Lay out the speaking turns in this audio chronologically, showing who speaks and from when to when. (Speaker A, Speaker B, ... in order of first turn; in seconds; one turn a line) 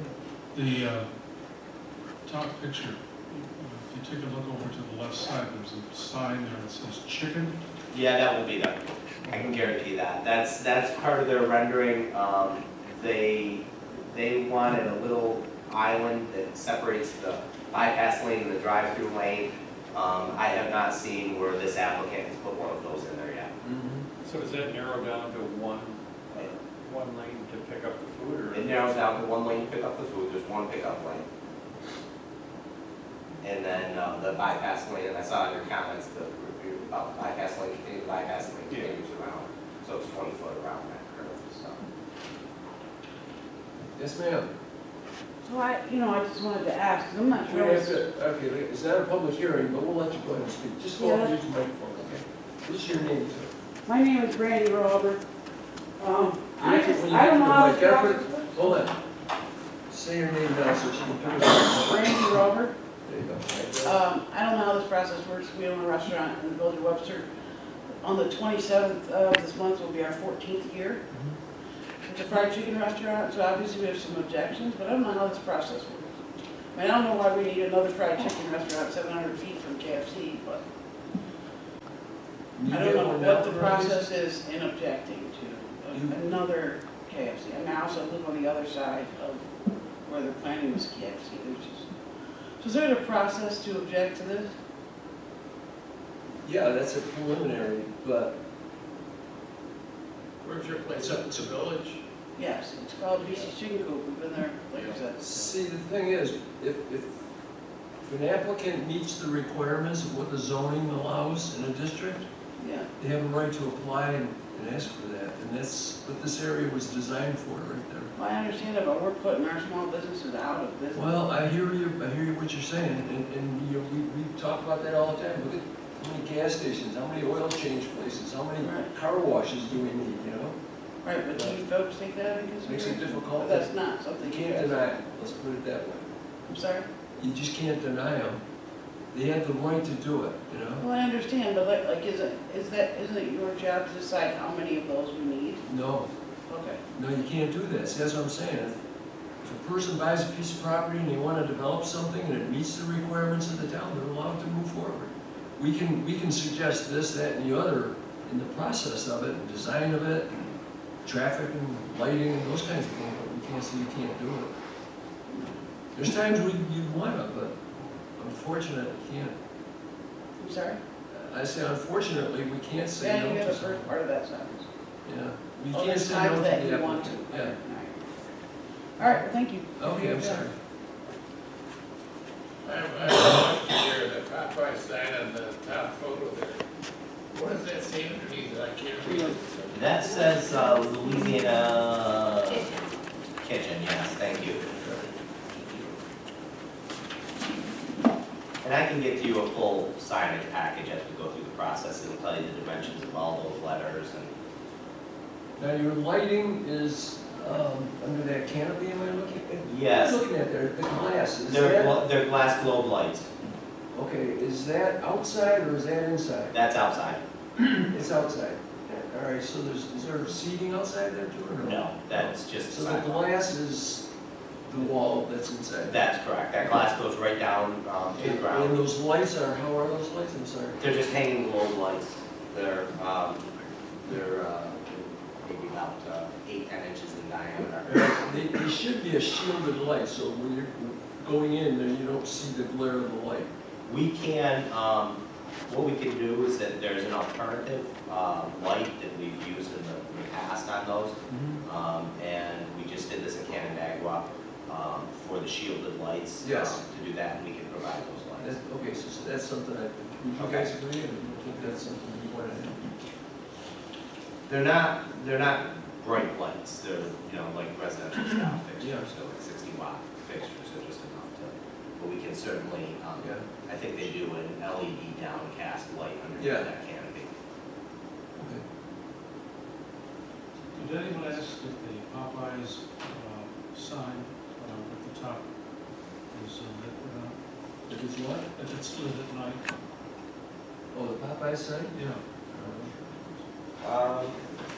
Speaker A: 0.5-1.1
Speaker A: 2.2-7.5
Speaker B: 7.9-23.5
Speaker C: 23.6-24.1
Speaker D: 24.2-28.9
Speaker B: 28.5-31.2
Speaker B: 33.4-41.8
Speaker C: 44.0-44.5
Speaker E: 45.5-48.0
Speaker C: 47.4-53.5
Speaker E: 51.0-51.3
Speaker E: 53.9-55.2
Speaker E: 56.0-58.7
Speaker C: 56.6-59.0
Speaker C: 59.9-62.2
Speaker E: 61.3-62.7
Speaker C: 63.0-63.9
Speaker E: 63.8-67.3
Speaker E: 68.0-71.0
Speaker E: 72.0-76.1
Speaker E: 76.7-80.6
Speaker C: 82.6-84.0
Speaker E: 82.7-89.4
Speaker C: 85.9-86.2
Speaker E: 90.0-91.9
Speaker E: 92.6-94.5
Speaker C: 96.4-98.4
Speaker F: 100.4-102.0
Speaker C: 101.0-101.5
Speaker E: 102.3-105.2
Speaker C: 105.2-107.1
Speaker C: 108.0-112.2
Speaker E: 112.6-112.9
Speaker C: 113.0-118.1
Speaker E: 118.1-121.2
Speaker C: 120.9-130.6
Speaker E: 128.6-128.9
Speaker E: 131.0-134.9
Speaker C: 132.6-136.1
Speaker E: 136.5-136.9
Speaker C: 137.2-138.4
Speaker C: 139.1-140.8
Speaker E: 140.8-145.6
Speaker C: 145.7-146.1
Speaker E: 146.5-146.8
Speaker C: 146.9-148.8
Speaker C: 149.4-160.3
Speaker C: 161.0-164.5
Speaker E: 165.3-165.6
Speaker C: 165.9-167.6
Speaker C: 168.2-169.3
Speaker E: 170.4-170.8
Speaker C: 171.1-173.9
Speaker E: 173.0-174.7
Speaker C: 175.0-177.5
Speaker E: 175.7-178.1
Speaker E: 179.0-180.5
Speaker C: 179.8-180.5
Speaker F: 182.6-186.6
Speaker F: 187.3-189.8
Speaker B: 189.7-192.7
Speaker B: 193.4-194.8
Speaker B: 198.6-204.3
Speaker C: 205.6-212.0
Speaker B: 209.6-210.2
Speaker B: 211.5-213.3
Speaker C: 213.9-216.6
Speaker B: 216.5-217.2
Speaker C: 217.6-224.0
Speaker B: 221.6-223.3
Speaker C: 224.7-226.0
Speaker B: 225.9-228.8
Speaker C: 228.2-230.8
Speaker B: 230.8-233.4
Speaker B: 234.0-238.2
Speaker C: 237.9-243.5
Speaker B: 243.8-258.6
Speaker C: 251.3-251.6
Speaker C: 256.4-256.8
Speaker C: 258.4-262.9
Speaker B: 260.4-260.7
Speaker B: 264.5-277.3
Speaker C: 268.3-269.1
Speaker C: 273.2-273.4
Speaker C: 276.4-276.7
Speaker C: 278.3-278.6
Speaker A: 280.7-285.4
Speaker A: 286.3-287.4
Speaker C: 287.9-288.5
Speaker A: 288.5-289.6
Speaker C: 290.9-291.9
Speaker A: 291.9-293.4
Speaker C: 292.5-292.9
Speaker B: 293.8-294.4